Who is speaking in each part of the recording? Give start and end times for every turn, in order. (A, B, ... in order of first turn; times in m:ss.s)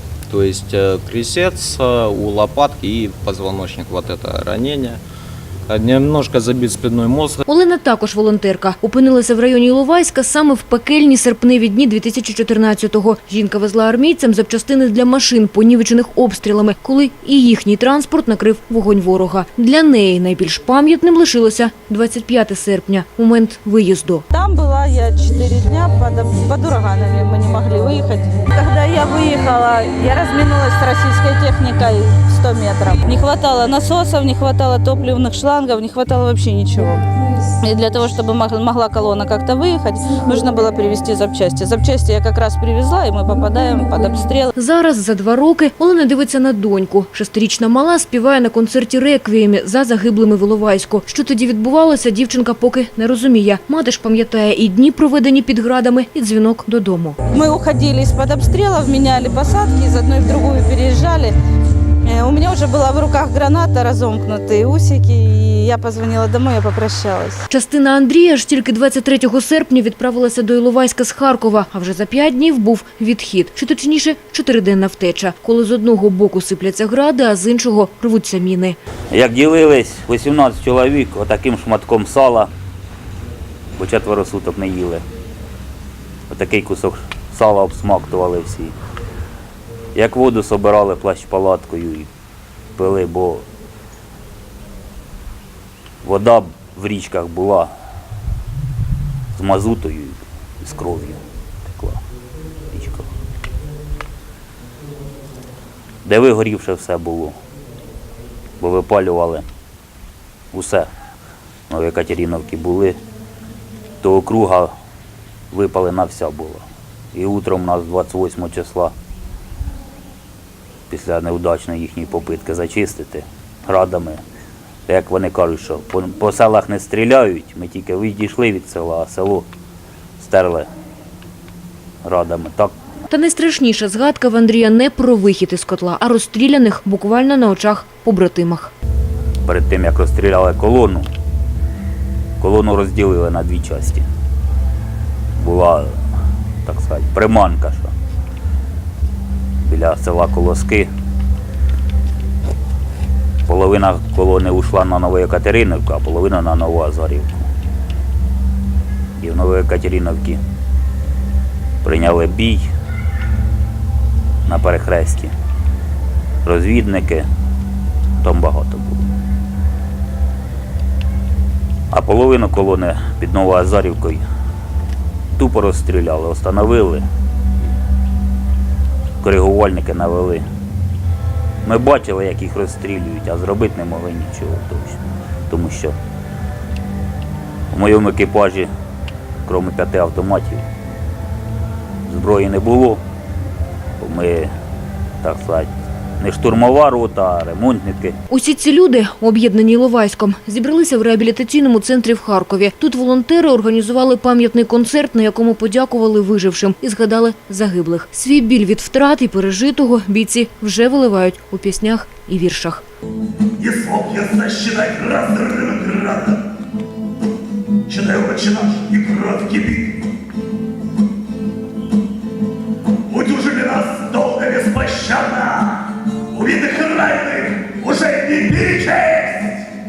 0:00.3-0:05.0 A
0:05.7-0:07.4 A
0:07.5-0:24.2 B
0:24.3-0:37.0 C
0:37.6-0:44.5 C
0:44.6-0:57.2 B
0:57.3-1:01.4 C
1:02.0-1:07.4 C
1:07.5-1:18.8 B
1:19.1-1:22.5 D
1:23.8-1:25.0 D
1:26.3-1:28.8 D
1:30.0-1:32.1 D
1:32.8-1:33.4 D
1:36.0-1:37.7 D
1:39.3-1:42.0 D
1:42.7-1:43.1 D
1:46.0-1:47.4 D
1:48.6-1:49.5 D
1:50.5-1:50.9 D
1:51.7-1:53.0 D
1:54.0-1:54.7 D
1:55.5-1:58.9 D
2:00.9-2:04.2 D
2:04.9-2:09.5 D
2:10.2-2:10.7 D
2:12.0-2:12.8 D
2:13.1-2:18.7 B
2:19.4-2:21.1 D
2:22.4-2:24.1 D
2:25.4-2:26.0 D
2:26.6-2:27.9 D
2:29.6-2:30.9 D
2:33.5-2:37.5 D
2:39.2-2:40.4 D
2:41.8-2:42.7 D
2:44.5-2:45.3 D
2:46.4-2:47.3 D
2:48.2-2:49.1 D
2:51.9-2:54.2 D
2:55.4-2:57.1 D
2:59.2-3:00.4 D
3:01.6-3:06.0 D
3:07.7-3:08.7 D
3:09.5-3:10.6 D
3:12.1-3:13.0 D
3:14.0-3:14.5 D
3:15.2-3:18.2 D
3:18.3-3:32.8 B
3:33.6-3:36.5 E
3:37.9-3:40.0 E
3:43.1-3:49.7 E